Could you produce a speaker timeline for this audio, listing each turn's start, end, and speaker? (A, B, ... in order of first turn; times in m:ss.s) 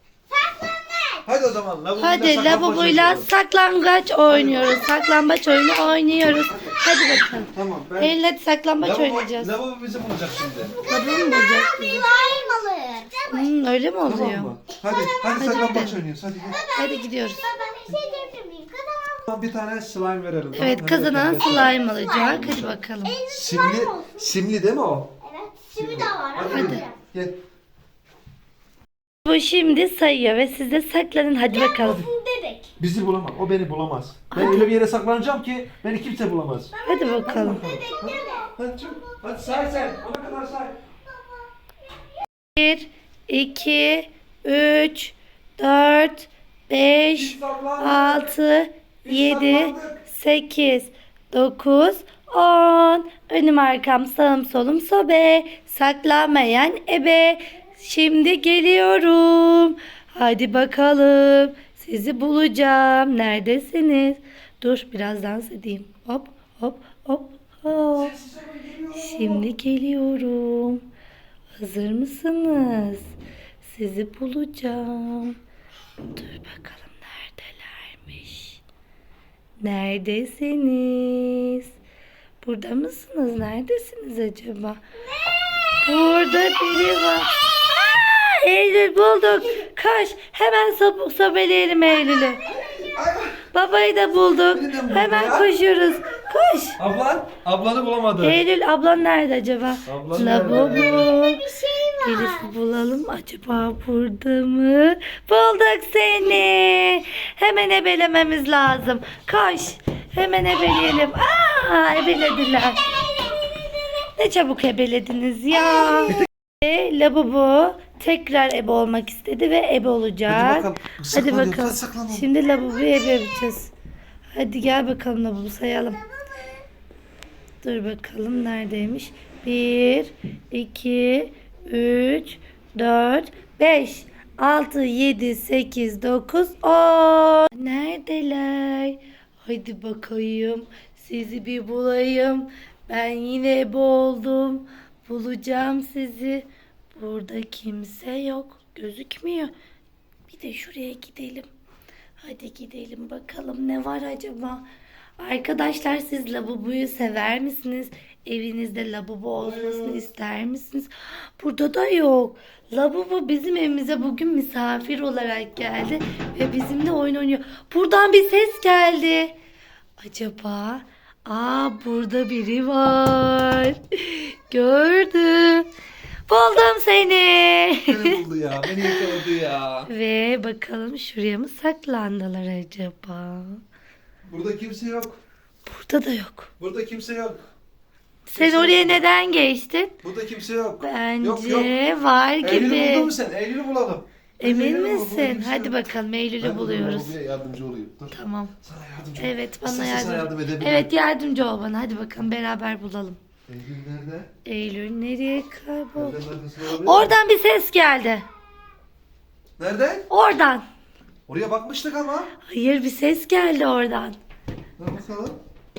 0:00.3-0:01.2 A
0:01.2-0:03.3 B
0:02.0-0:09.5 C
0:04.3-0:04.9 B
0:05.4-0:06.0 A
0:06.6-0:07.2 A
0:07.5-0:08.2 B
0:08.8-0:10.8 B
0:10.8-0:12.0 C
0:10.9-0:13.5 A
0:13.3-0:14.5 C
0:14.0-0:16.6 B
0:15.4-0:16.0 C
0:16.3-0:19.3 A
0:16.7-0:17.4 C
0:19.3-0:22.8 B
0:20.5-0:23.2 C
0:21.5-0:24.3 A
0:23.3-0:25.1 B
0:25.2-0:27.0 A
0:25.7-0:27.4 B
0:26.5-0:26.8 C
0:29.2-0:32.1 C
0:31.5-0:32.7 A
0:32.8-0:36.7 B
0:34.3-0:34.6 C
0:36.7-0:40.2 A
0:36.8-0:37.6 C
0:37.2-0:40.8 B
0:41.0-0:41.5 A
0:42.5-1:08.1 C
0:47.1-0:48.3 B
0:49.0-0:50.0 B
1:07.9-1:09.5 B
1:08.9-1:10.8 C
1:11.6-1:13.1 C
1:13.6-1:15.4 C
1:16.1-1:18.6 C
1:19.6-1:21.7 C
1:22.4-1:24.8 C
1:25.1-1:28.0 A
1:25.8-1:32.4 C
1:32.5-1:33.4 B
1:33.5-1:36.8 C
1:34.5-1:35.5 B
1:36.8-1:38.4 B
1:38.2-1:41.4 C
1:39.8-1:41.1 B
1:40.9-1:42.5 A
1:42.0-1:52.9 C
1:52.8-1:54.0 A
1:54.2-2:03.7 C
1:55.6-1:56.2 A
2:00.3-2:02.3 B
2:02.4-2:03.5 A
2:04.3-2:06.0 C
2:05.9-2:06.6 A
2:07.6-2:29.5 C
2:30.3-2:31.5 C
2:32.2-2:34.6 C
2:35.2-2:49.4 C
2:39.3-2:40.0 B
2:50.0-2:55.7 C
2:56.3-2:59.1 C
2:57.8-2:59.9 B
2:59.9-3:03.6 C
3:04.2-3:05.2 B
3:05.7-3:06.5 C
3:06.6-3:07.4 B
3:08.3-3:09.9 C
3:08.3-3:09.0 B
3:10.0-3:11.7 B
3:10.8-3:13.1 C
3:12.4-3:15.9 B
3:14.4-3:17.1 C
3:16.4-3:20.9 B
3:18.1-3:18.5 C
3:19.2-3:23.2 C
3:23.5-3:24.3 B
3:24.4-3:26.2 C
3:26.0-3:27.1 B
3:26.7-3:28.2 C
3:29.6-3:30.1 B
3:30.1-3:30.6 C
3:31.3-3:32.3 B
3:32.5-3:34.2 C
3:34.8-3:35.4 B